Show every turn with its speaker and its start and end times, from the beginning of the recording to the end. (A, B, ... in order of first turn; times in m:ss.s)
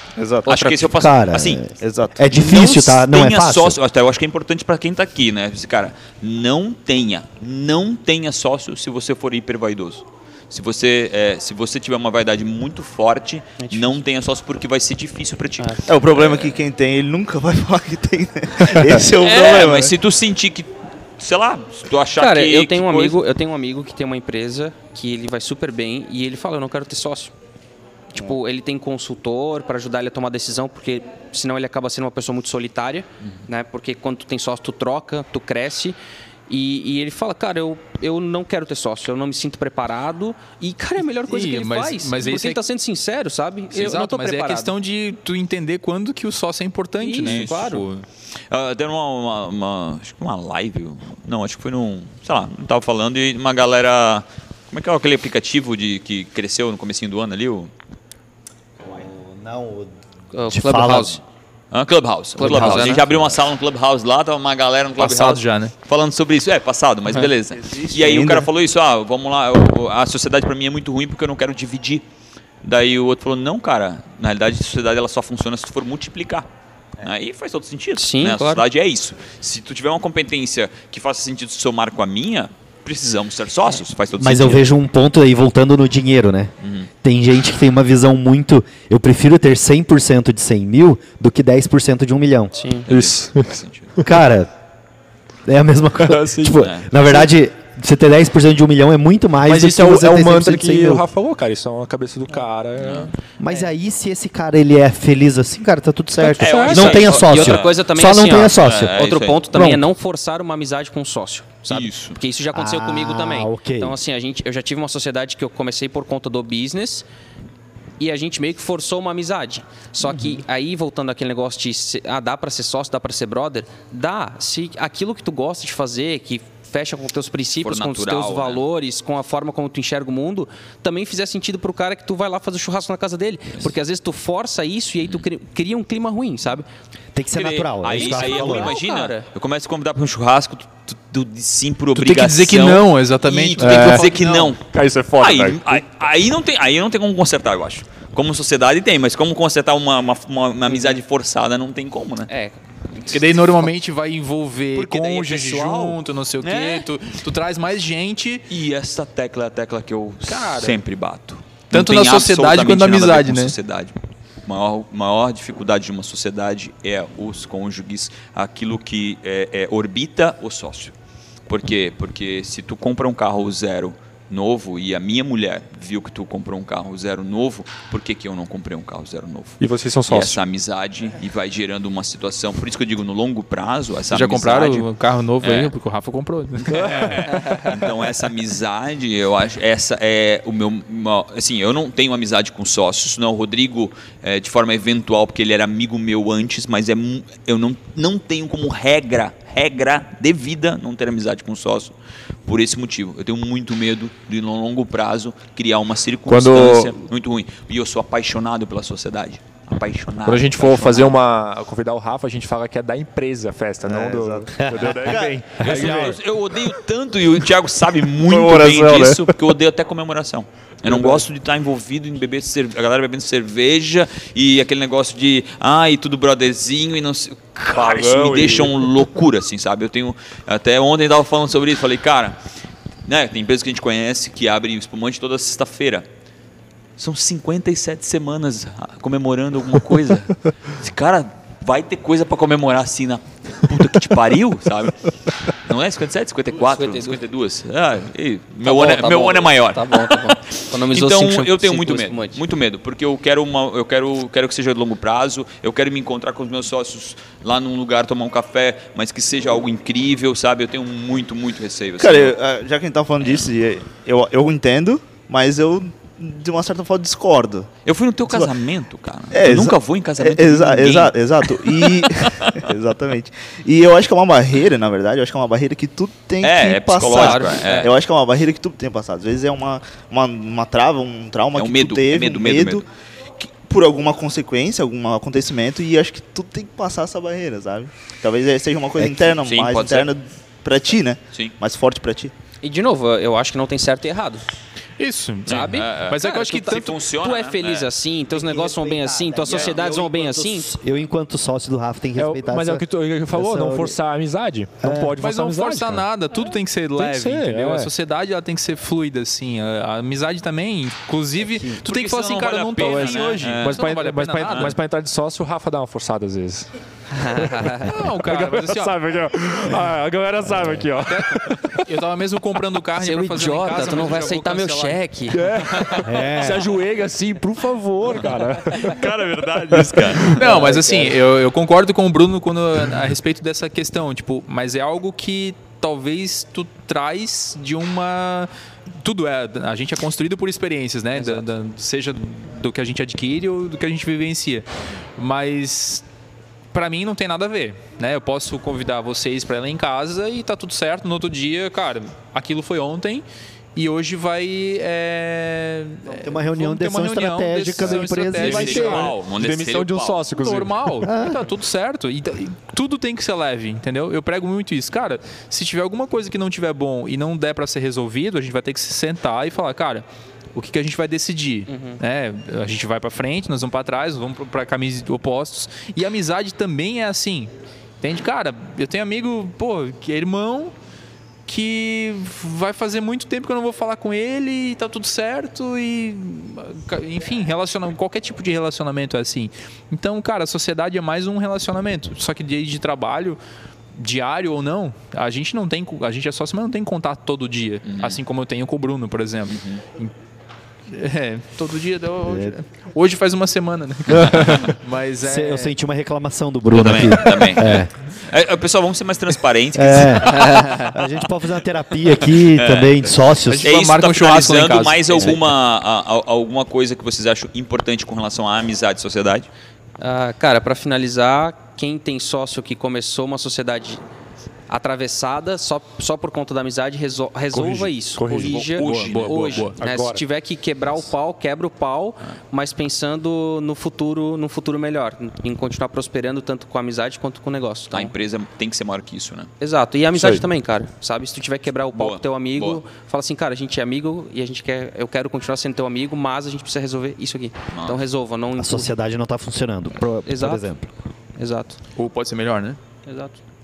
0:00.2-0:00.8 A
0:00.4-0:01.6 B
0:00.8-0:03.8 C
0:01.8-0:02.3 A
0:02.3-0:16.5 B
0:13.6-0:14.0 D
0:15.9-0:19.9 A
0:18.6-0:23.2 B
0:22.2-0:27.3 D
0:28.1-0:36.0 D
0:36.5-0:44.7 D
0:41.2-0:42.6 E
0:43.7-0:48.1 E
0:47.0-0:47.9 D
0:47.2-0:47.5 B
0:48.5-0:57.7 B
0:58.8-0:59.9 C
1:00.3-1:01.2 D
1:00.5-1:01.2 C
1:01.7-1:12.0 B
1:02.4-1:03.1 D
1:05.0-1:05.7 E
1:07.6-1:08.5 A
1:12.6-1:16.5 B
1:17.0-1:24.7 B
1:18.0-1:18.6 D
1:24.2-1:32.5 C
1:26.6-1:26.9 B
1:32.6-1:32.9 D
1:32.8-1:34.0 B
1:32.9-1:34.1 F
1:34.0-1:34.5 C
1:35.5-1:41.0 C
1:36.0-1:36.6 F
1:36.6-1:36.9 B
1:39.4-1:43.1 F
1:42.8-1:43.1 B
1:43.4-1:49.0 C
1:46.2-1:46.9 F
1:46.4-1:47.8 B
1:46.6-1:57.0 D
1:48.6-1:49.4 B
1:49.5-1:49.8 C
1:51.7-1:52.2 B
1:52.5-1:54.0 C
1:58.0-2:16.7 D
2:00.0-2:00.4 C
2:07.6-2:08.6 B
2:15.0-2:15.3 B
2:17.1-2:18.8 C
2:17.3-2:24.6 B
2:17.9-2:19.3 D
2:22.0-2:24.5 E
2:23.6-2:25.8 F
2:25.2-2:32.3 B
2:30.7-2:31.0 D
2:32.3-2:33.2 D
2:33.1-2:38.5 E
2:34.8-2:36.8 B
2:38.5-2:44.0 B
2:40.3-2:40.7 E
2:41.7-2:43.6 E
2:44.5-2:51.0 B
2:51.5-3:04.9 B
2:59.6-3:00.4 F
3:04.1-3:07.7 E
3:05.4-3:05.7 B
3:06.7-3:31.2 B
3:26.3-3:27.0 F
3:30.3-3:36.2 F
3:33.8-3:35.2 C
3:33.9-3:35.5 A
3:35.6-3:52.4 B
3:38.2-3:39.4 F
3:40.9-3:41.2 F
3:47.7-3:48.9 F
3:53.1-3:56.1 B
3:57.0-4:22.4 B
4:06.5-4:07.2 D
4:08.6-4:12.4 D
4:22.0-4:27.7 A
4:23.2-4:23.5 B
4:27.9-4:32.6 B
4:29.3-4:42.8 A
4:36.4-4:37.9 B
4:37.1-4:37.9 D
4:41.6-4:42.8 B
4:43.4-4:52.3 A
4:49.0-4:50.1 B
4:52.6-4:54.5 D
4:55.0-4:57.0 E
4:55.5-4:57.9 B
4:55.5-5:00.7 D
4:58.3-5:04.0 C
5:02.2-5:06.0 F
5:04.8-5:05.2 C
5:05.2-5:14.7 E
5:07.0-5:07.9 F
5:11.4-5:11.8 C
5:11.8-5:14.7 B
5:12.8-5:21.9 F
5:17.1-5:18.0 D
5:17.8-5:19.0 E
5:21.1-5:25.0 E
5:23.0-5:25.8 D
5:25.3-5:30.8 F
5:25.6-5:26.1 E
5:26.0-5:26.6 C
5:28.7-5:30.4 B
5:30.4-5:44.7 E
5:30.6-5:31.2 D
5:41.2-5:41.5 D
5:45.2-5:46.0 E
5:46.7-5:53.2 E
5:53.8-5:59.0 E
5:56.1-5:59.1 C
5:58.3-6:01.1 F
5:58.4-6:00.4 B
6:00.3-6:20.7 E
6:01.0-6:01.5 C
6:11.7-6:12.0 D
6:21.5-6:33.4 E
6:34.0-6:40.1 E
6:37.8-6:38.2 B
6:39.5-6:39.8 B
6:40.9-6:45.8 E
6:42.2-6:42.6 C
6:45.2-6:47.9 C
6:46.7-6:50.6 B
6:49.8-6:53.7 C
6:52.2-6:53.1 B
6:53.5-6:55.4 E
6:53.6-6:59.5 B
7:00.0-7:04.0 D
7:04.7-7:18.1 D
7:07.5-7:08.6 F
7:08.4-7:09.7 B
7:08.8-7:09.8 E
7:09.8-7:10.2 F
7:17.9-7:19.5 B
7:19.6-7:28.9 D
7:20.1-7:20.4 F
7:21.9-7:22.8 B
7:27.7-7:28.0 B
7:28.6-7:30.9 C
7:30.3-7:30.7 D
7:31.4-7:31.8 D
7:32.0-7:32.8 E
7:33.1-7:33.4 D